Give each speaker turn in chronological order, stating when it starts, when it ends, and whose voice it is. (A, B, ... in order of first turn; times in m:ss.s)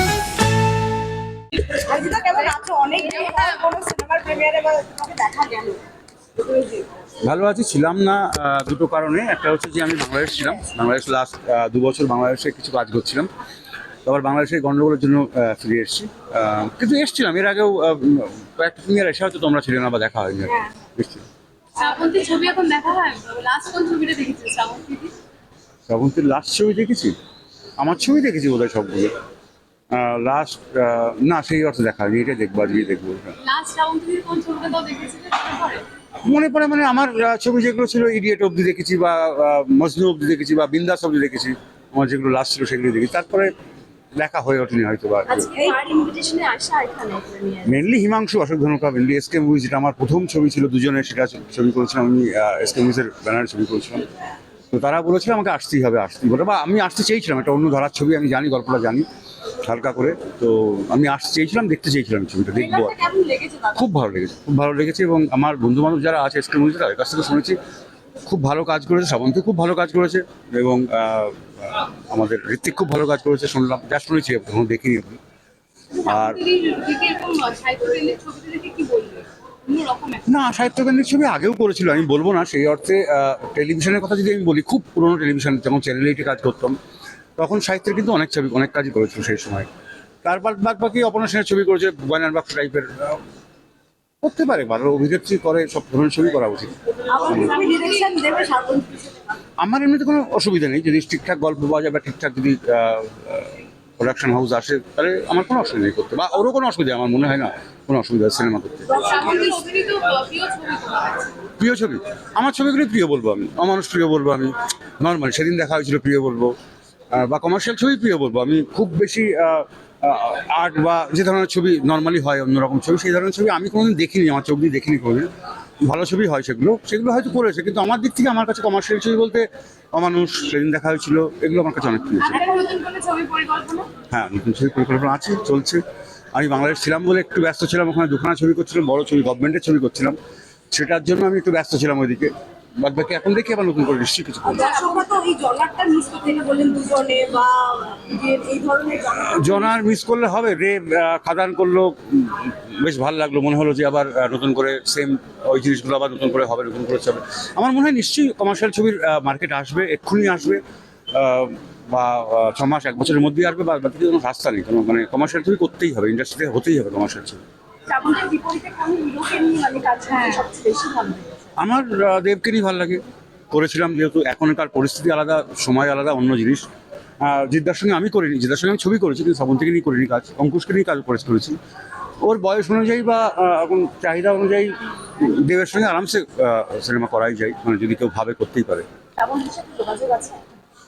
0:01.7-0:05.8 A
0:06.4-0:06.9 A
0:07.2-0:13.3 B
0:14.0-0:21.2 B
0:21.8-0:25.1 C
0:25.9-0:27.2 B
0:27.8-0:29.2 B
0:29.9-0:33.4 B
0:33.4-0:35.8 C
0:36.2-0:43.5 B
0:44.2-0:45.5 B
0:45.3-0:47.8 A
0:47.6-0:54.1 B
0:54.7-0:59.1 B
0:59.6-1:03.0 B
1:02.6-1:03.8 A
1:03.7-1:07.6 B
1:08.2-1:15.2 B
1:16.0-1:20.2 C
1:16.0-1:16.4 B
1:20.3-1:26.8 B
1:27.4-1:29.7 B
1:30.2-1:33.2 B
1:34.2-1:36.7 B
1:37.1-1:39.2 A
1:37.2-1:37.6 B
1:39.6-1:48.9 B
1:48.9-1:51.3 C
1:48.9-1:49.6 A
1:51.6-1:56.5 B
1:57.1-2:05.3 B
2:05.8-2:12.4 B
2:12.3-2:13.8 A
2:14.1-2:15.8 B
2:16.3-2:20.2 B
2:20.7-2:24.7 B
2:24.4-2:29.7 A
2:24.6-2:25.0 C
2:29.1-2:40.6 B
2:41.1-2:47.4 B
2:47.9-2:51.4 A
2:51.6-2:56.6 B
2:57.2-3:01.6 B
3:02.2-3:08.9 B
3:09.2-3:10.4 A